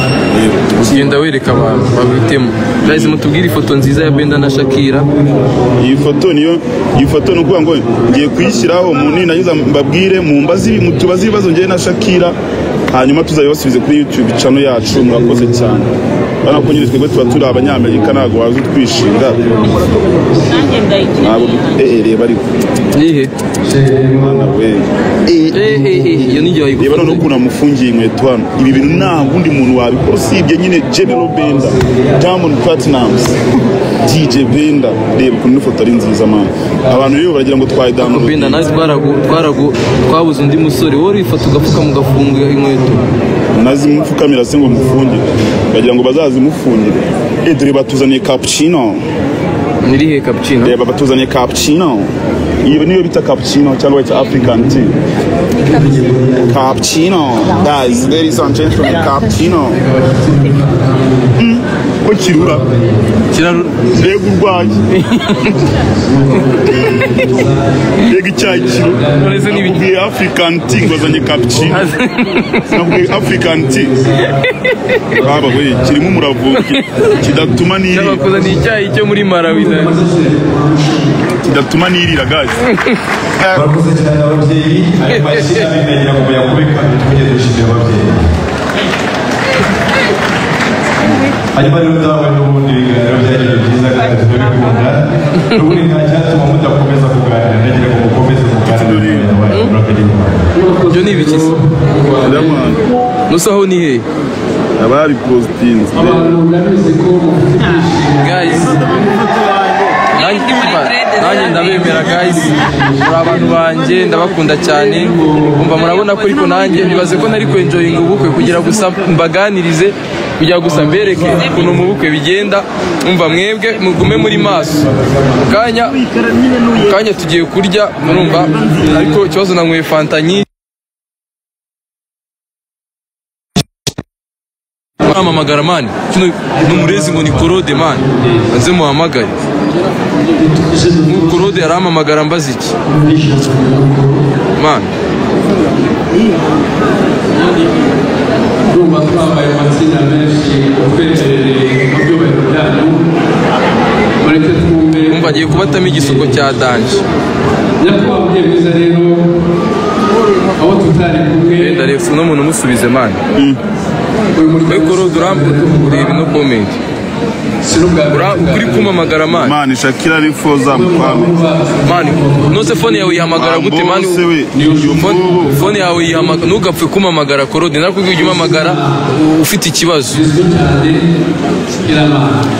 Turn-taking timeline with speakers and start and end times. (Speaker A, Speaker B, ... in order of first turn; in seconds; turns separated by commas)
Speaker A: 0.3-1.1, Speaker B: 0.8-5.1, Speaker A: 2.8-3.2, Speaker A: 5.8-12.4, Speaker A: 12.9-15.9, Speaker A: 16.4-19.6, Speaker C: 19.7-20.9, Speaker A: 21.1-22.4, Speaker B: 22.9-23.3, Speaker A: 24.1-25.8, Speaker B: 25.5-27.2, Speaker A: 26.8-33.5, Speaker A: 34.0-38.7, Speaker B: 38.0-43.1, Speaker A: 43.5-49.0, Speaker B: 49.8-50.8, Speaker A: 50.6-52.1, Speaker A: 52.6-55.0, Speaker C: 55.6-56.4, Speaker A: 56.4-59.8, Speaker C: 59.9-61.3, Speaker A: 61.4-62.7, Speaker B: 63.3-63.9, Speaker A: 63.9-64.9, Speaker B: 64.9-65.6, Speaker A: 68.0-71.8, Speaker B: 69.1-69.8, Speaker B: 71.7-72.6, Speaker A: 72.7-74.1, Speaker B: 74.2-74.5, Speaker A: 75.1-78.3, Speaker B: 76.5-77.1, Speaker B: 77.9-80.1, Speaker C: 80.2-81.1, Speaker A: 81.3-82.6, Speaker A: 83.4-83.8, Speaker B: 85.0-85.8, Speaker D: 86.1-87.4, Speaker D: 93.4-94.9, Speaker B: 95.5-95.8, Speaker D: 96.3-97.4, Speaker A: 98.7-99.5, Speaker B: 99.5-99.8, Speaker D: 99.5-100.4, Speaker B: 100.9-101.5, Speaker C: 101.6-102.6, Speaker A: 102.2-102.8, Speaker B: 103.3-104.0, Speaker A: 104.8-106.2, Speaker C: 106.0-109.0, Speaker B: 108.2-108.8, Speaker B: 110.1-124.9, Speaker C: 112.5-112.9, Speaker B: 125.5-126.0, Speaker B: 126.7-130.4, Speaker C: 128.4-128.8, Speaker B: 135.0-139.3, Speaker C: 140.4-141.1, Speaker B: 141.0-142.8, Speaker C: 142.9-144.2, Speaker B: 144.6-144.9, Speaker C: 148.7-153.1, Speaker C: 154.2-156.3, Speaker B: 155.1-157.0, Speaker C: 157.8-159.4, Speaker C: 160.6-161.6, Speaker B: 161.6-163.2, Speaker A: 163.3-163.6, Speaker C: 164.3-165.8, Speaker B: 164.7-166.8, Speaker C: 167.6-168.9, Speaker B: 168.1-169.5, Speaker A: 169.4-171.5, Speaker C: 170.9-173.2, Speaker B: 171.8-174.2, Speaker A: 173.4-175.6, Speaker B: 174.8-180.2, Speaker C: 175.4-176.2, Speaker C: 180.2-181.0, Speaker C: 181.8-182.4